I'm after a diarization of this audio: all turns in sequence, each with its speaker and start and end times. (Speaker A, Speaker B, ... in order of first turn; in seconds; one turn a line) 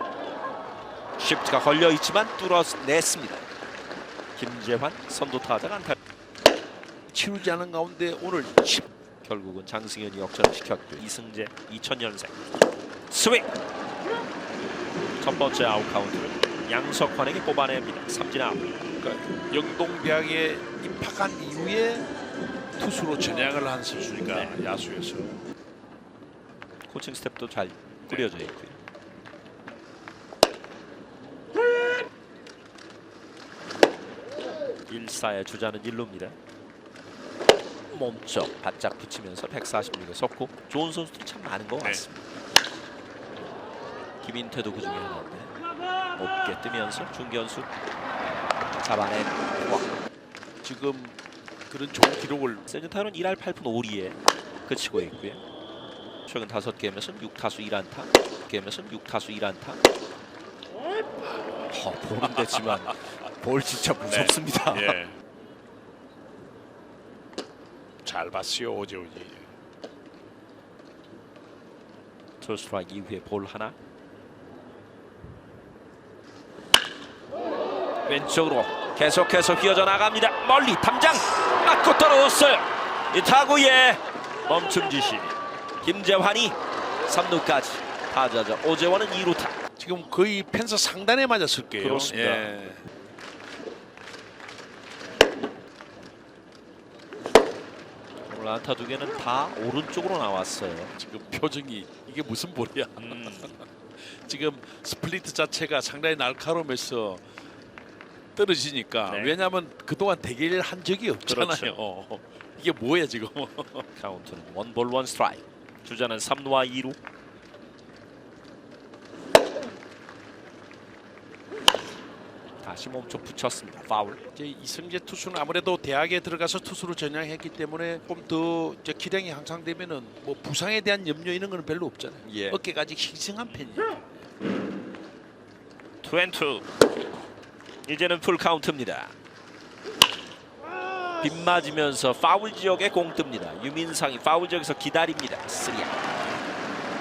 Speaker A: 1.2-3.5
Speaker A: 4.4-6.0
Speaker B: 7.1-8.9
Speaker A: 9.2-12.4
Speaker A: 13.1-13.5
Speaker A: 15.2-18.7
Speaker B: 18.9-22.1
Speaker B: 22.8-25.4
Speaker A: 24.3-24.6
Speaker A: 26.9-28.8
Speaker A: 34.9-36.4
Speaker A: 37.9-42.3
Speaker B: 41.8-42.1
Speaker A: 44.2-45.6
Speaker A: 46.1-47.7
Speaker A: 48.8-49.9
Speaker B: 50.6-51.2
Speaker B: 51.7-52.7
Speaker A: 52.7-55.4
Speaker A: 56.3-59.8
Speaker A: 61.7-65.0
Speaker B: 64.1-65.2
Speaker B: 68.0-69.5
Speaker A: 72.4-73.8
Speaker A: 78.1-89.5
Speaker B: 89.8-92.8
Speaker A: 91.8-92.7
Speaker A: 98.3-101.0
Speaker B: 101.0-107.2
Speaker A: 103.0-103.6
Speaker B: 108.4-113.9
Speaker A: 109.1-109.4
Speaker A: 111.2-111.8
Speaker A: 114.0-117.0
Speaker A: 122.6-124.2
Speaker B: 124.3-134.0
Speaker A: 132.2-132.6
Speaker A: 133.5-133.9
Speaker A: 136.0-136.7
Speaker A: 137.9-139.2
Speaker A: 141.2-146.0